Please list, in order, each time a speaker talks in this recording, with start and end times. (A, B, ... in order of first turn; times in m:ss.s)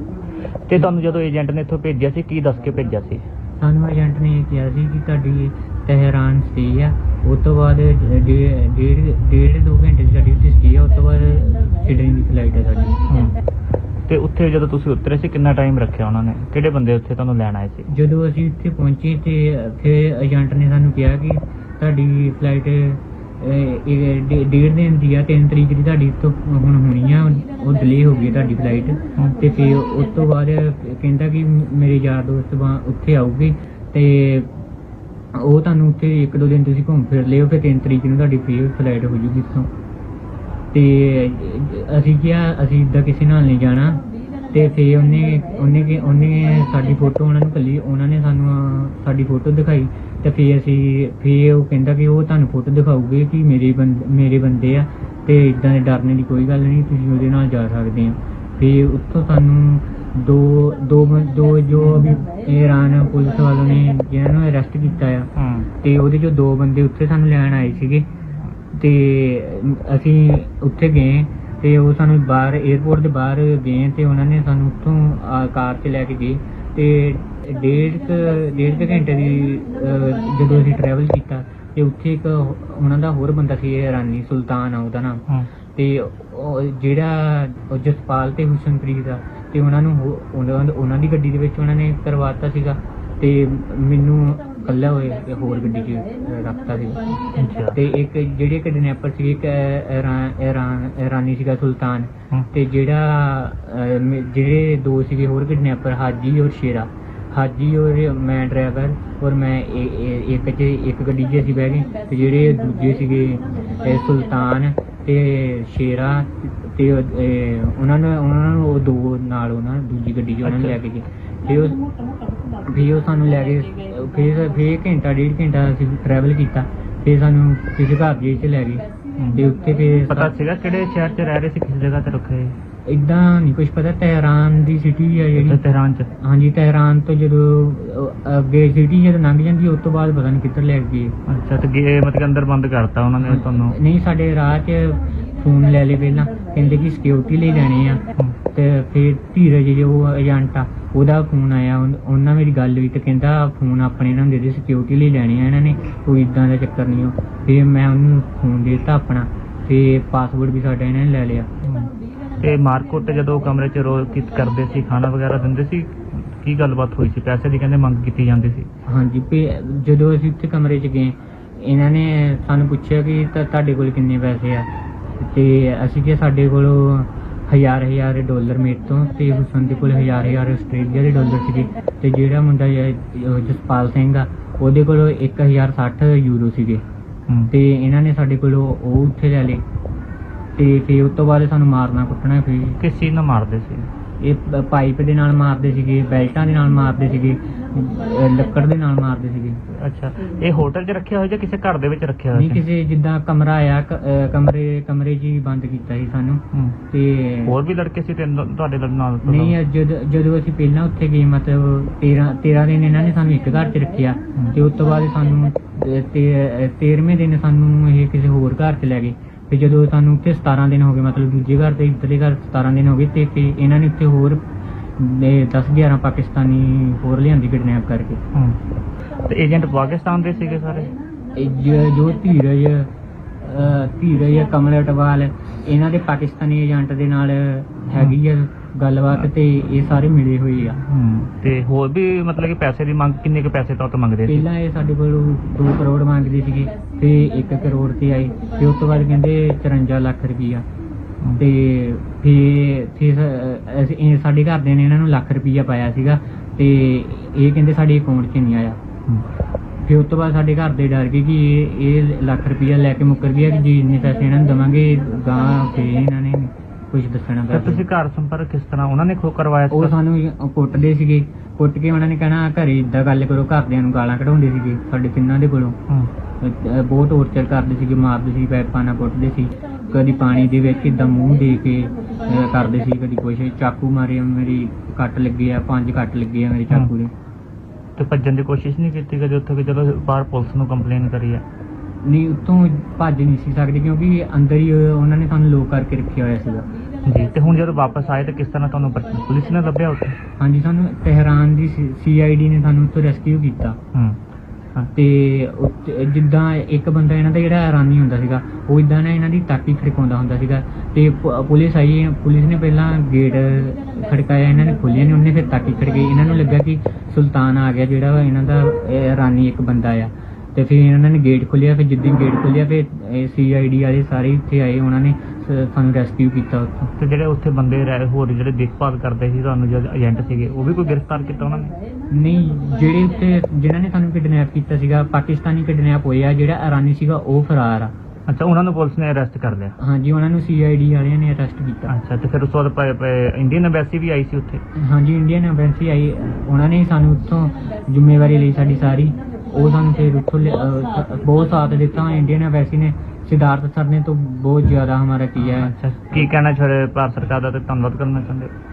0:00.7-0:03.2 A
0:03.6-0:13.0 B
0:13.1-0:13.4 A
0:14.1-0:17.9 A
0:17.9-0:34.5 B
0:35.3-0:39.7 B
0:40.7-1:05.3 B
1:05.4-1:05.7 A
1:05.8-1:08.1 B
1:08.7-2:01.8 B
1:37.4-1:37.8 A
2:00.4-2:00.8 A
2:02.6-2:10.3 B
2:09.2-2:09.4 A
2:10.1-2:12.6 A
2:12.8-2:15.6 B
2:15.3-2:16.1 A
2:16.2-2:21.2 B
2:21.3-2:23.8 A
2:23.2-2:41.5 B
2:41.6-2:48.7 A
2:48.8-3:06.8 B
3:07.5-3:09.6 B
3:10.6-3:12.8 B
3:12.8-3:13.9 A
3:14.2-3:19.6 B
3:19.7-3:22.6 A
3:22.3-3:27.6 B
3:27.4-3:29.6 A
3:29.2-3:48.2 B
3:34.3-3:34.6 A
3:48.3-3:48.6 A
3:49.2-3:51.0 A
3:51.3-3:52.9 B
3:53.4-4:00.8 B
4:00.8-4:04.4 A
4:04.3-4:10.6 B
4:11.4-4:18.8 B
4:19.8-4:27.8 B
4:27.5-4:29.9 A
4:29.7-4:35.8 B
4:36.4-4:47.1 B
4:48.0-4:51.4 A
4:52.0-4:56.7 B
4:57.0-5:00.2 A
5:00.4-5:03.8 B
5:03.9-5:04.2 A
5:04.9-5:26.9 B
5:27.0-5:31.8 A
5:32.1-5:37.9 B
5:38.3-5:39.8 A
5:39.8-5:41.9 B
5:41.9-5:44.6 A
5:44.7-5:55.7 B
5:55.4-5:58.5 A